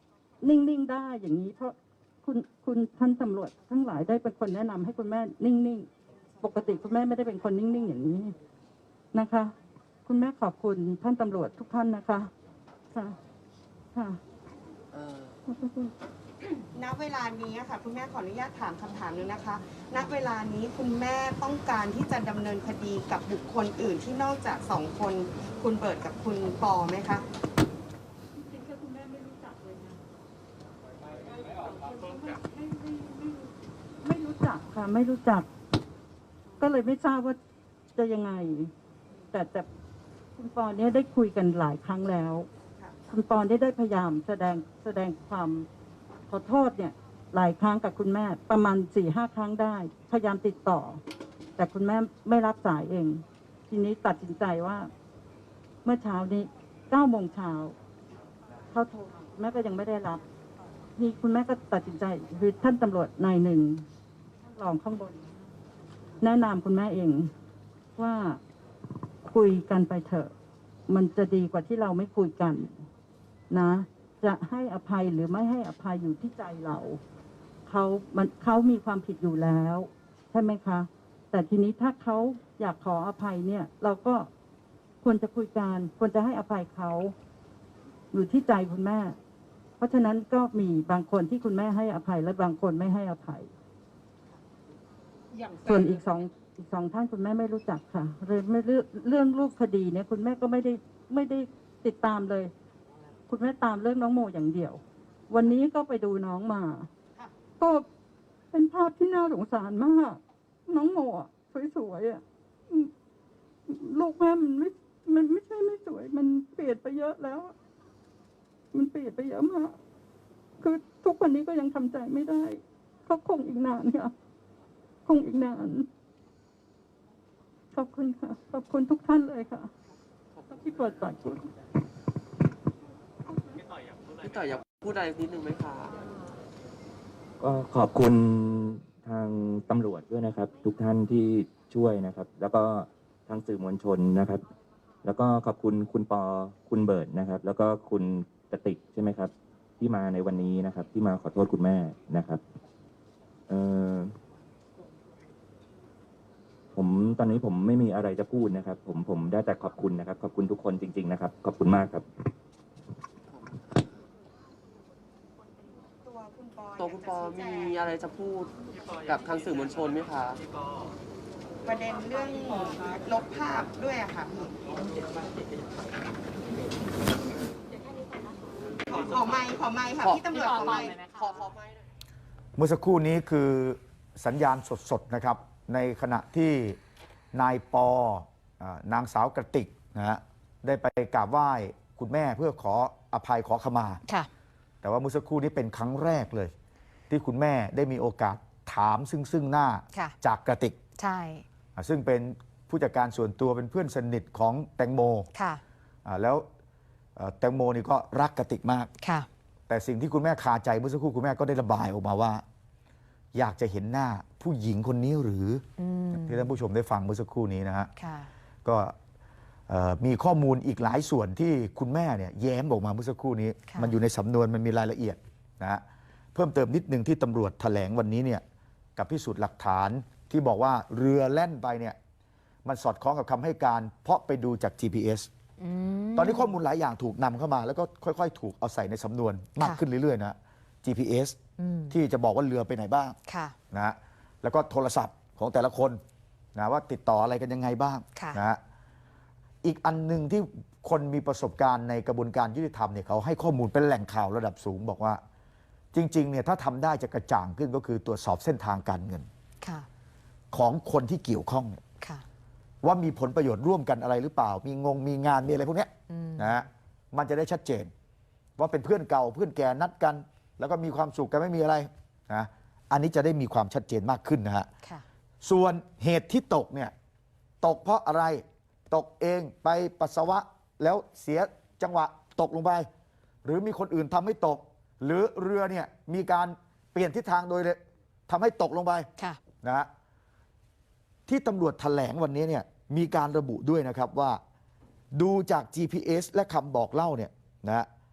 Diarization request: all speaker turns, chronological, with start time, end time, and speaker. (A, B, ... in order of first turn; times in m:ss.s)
0:00.4-0:05.9 A
0:06.4-0:08.3 A
0:09.1-0:09.5 A
0:10.0-0:12.3 A
0:13.9-0:14.2 A
0:14.9-0:15.4 B
0:15.5-0:15.9 A
0:16.7-0:27.2 C
0:28.4-0:30.0 A
0:31.3-0:35.5 A
0:36.6-0:37.4 A
0:38.0-0:38.7 A
0:39.3-0:39.7 A
0:40.4-0:42.5 A
0:43.1-0:45.7 A
0:46.3-0:51.0 A
0:51.6-0:54.9 A
0:55.8-0:57.8 A
0:58.7-1:00.2 A
1:01.0-1:03.9 A
1:04.5-1:05.5 A
1:06.2-1:07.3 A
1:08.0-1:08.4 A
1:09.2-1:10.3 A
1:10.9-1:12.8 A
1:13.5-1:17.0 A
1:17.6-1:24.3 A
1:25.0-1:27.1 A
1:28.1-1:29.2 A
1:29.8-1:33.5 A
1:35.6-1:42.5 A
1:43.3-1:46.9 A
1:47.6-1:47.8 A
1:48.5-1:52.9 A
1:53.7-1:57.5 A
1:58.7-1:59.8 A
2:00.6-2:04.1 A
2:05.0-2:05.9 A
2:07.7-2:09.7 A
2:10.5-2:11.5 A
2:14.1-2:16.0 B
2:17.4-2:24.4 D
2:25.0-2:32.4 D
2:33.5-2:34.1 D
2:36.7-2:42.0 D
2:43.3-2:43.7 B
2:46.0-2:47.8 C
2:46.8-2:48.5 B
2:49.0-2:50.4 B
2:51.6-2:54.5 C
2:58.9-3:01.0 C
3:00.0-3:01.8 B
3:02.6-3:06.8 E
3:07.3-3:14.0 E
3:14.8-3:16.5 E
3:17.1-3:20.8 E
3:21.0-3:21.4 F
3:21.8-3:25.3 E
3:25.3-3:25.6 F
3:26.0-3:26.4 E
3:27.2-3:28.9 E
3:29.0-3:29.3 F
3:29.7-3:32.4 E
3:33.3-3:35.6 E
3:35.8-3:36.5 F
3:36.1-3:37.9 E
3:38.0-3:38.3 F
3:38.6-3:38.9 E
3:39.7-3:45.8 E
3:43.7-3:43.9 F
3:46.3-3:48.4 E
3:49.0-3:52.0 E
3:52.6-3:55.3 E
3:55.6-3:56.5 F
3:56.2-4:01.4 E
4:01.6-4:02.0 F
4:01.9-4:03.2 E
4:03.3-4:03.5 F
4:03.7-4:06.0 E
4:06.6-4:08.6 E
4:08.1-4:08.4 F
4:09.6-4:15.2 E
4:15.9-4:19.3 E
4:20.5-4:21.8 E
4:22.8-4:27.9 E
4:26.1-4:26.6 F
4:28.6-4:34.7 E
4:35.4-4:36.9 E
4:37.6-4:42.9 E
4:43.4-4:49.1 E
4:49.6-4:49.9 E
4:51.3-4:54.4 E
4:55.1-4:57.9 E